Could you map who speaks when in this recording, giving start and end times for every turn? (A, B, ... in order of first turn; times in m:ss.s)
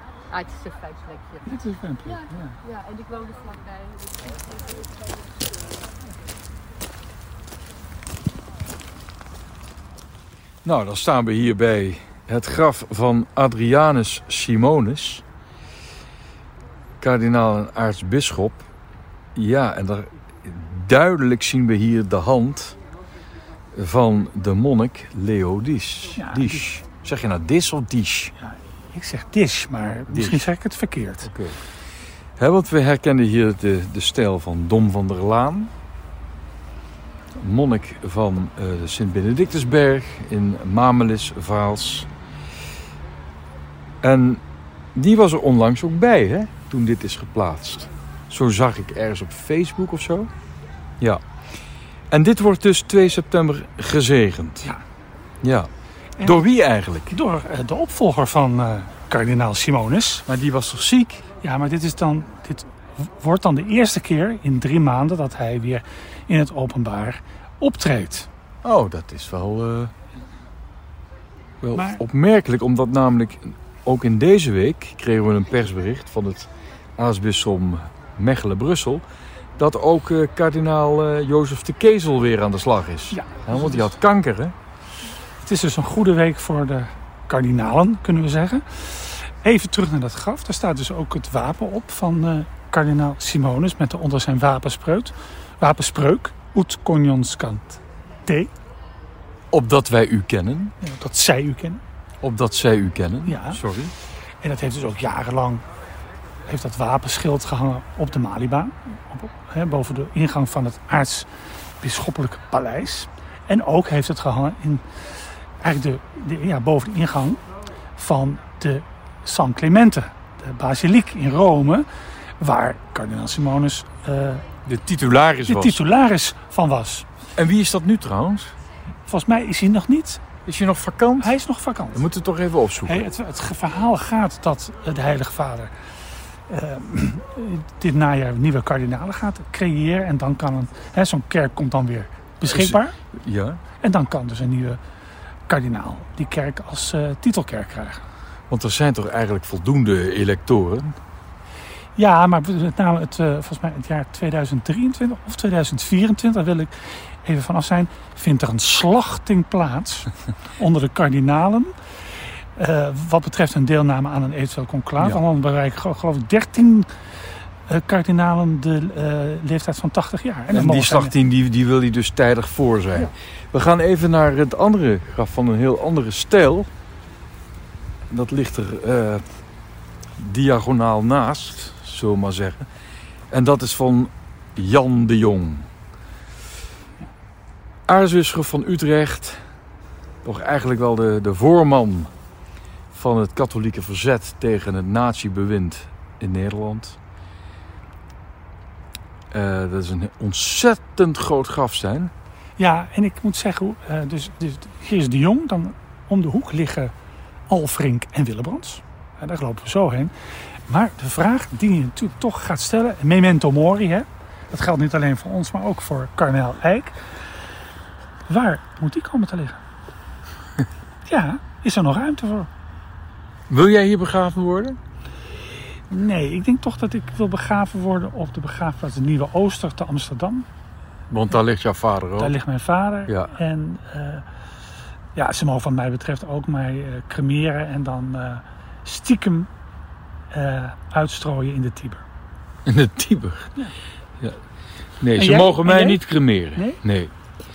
0:00.3-0:01.5 A
0:01.5-0:02.6 B
0:02.0-0:04.8 A
0:10.6-0:15.2 C
0:17.0-0:18.7 C
0:19.4-0:22.8 C
0:23.7-0:28.3 C
0:26.2-0:26.7 B
0:28.4-0:31.3 B
0:30.1-0:30.5 C
0:31.2-0:31.6 C
0:32.4-0:35.7 C
0:37.4-0:42.1 C
0:44.0-0:44.4 C
0:45.0-0:50.3 C
0:52.1-0:54.7 C
0:55.4-0:55.7 C
0:56.2-0:56.4 B
0:56.2-0:57.1 C
0:57.1-1:00.2 B
1:00.3-1:01.3 C
1:01.4-1:08.3 B
1:08.6-1:09.9 C
1:11.6-1:19.0 C
1:11.7-1:12.0 B
1:19.6-1:24.6 C
1:23.1-1:23.9 B
1:25.4-1:38.5 B
1:39.5-1:40.7 C
1:40.8-1:41.8 B
1:42.2-1:43.9 C
1:43.3-1:43.6 B
1:44.4-1:45.6 B
1:46.5-1:51.3 B
1:51.8-1:57.4 B
1:58.0-2:01.9 B
2:02.4-2:04.4 B
2:04.6-2:05.8 C
2:05.5-2:07.1 B
2:07.4-2:08.5 C
2:09.1-2:10.2 B
2:10.4-2:11.4 C
2:11.2-2:12.1 B
2:11.9-2:13.0 C
2:12.8-2:15.7 B
2:16.5-2:23.0 B
2:22.4-2:23.6 C
2:23.8-2:24.8 B
2:25.5-2:28.0 B
2:28.5-2:31.0 C
2:32.0-2:41.7 B
2:42.6-2:46.9 B
2:47.7-2:51.2 B
2:50.5-2:56.7 C
2:58.1-2:59.2 C
3:00.2-3:02.6 C
3:03.3-3:05.7 C
3:07.9-3:09.5 C
3:10.2-3:12.1 C
3:12.9-3:17.0 C
3:19.3-3:22.1 C
3:22.6-3:26.9 B
3:27.5-3:30.1 B
3:30.7-3:37.0 B
3:38.3-3:39.6 B
3:41.1-3:42.5 B
3:43.5-3:44.8 C
3:45.9-3:50.5 B
3:51.1-3:52.4 C
3:52.2-3:54.2 B
3:55.2-3:59.5 B
4:00.3-4:02.0 B
4:02.7-4:03.5 C
4:05.0-4:07.1 C
4:05.2-4:06.8 B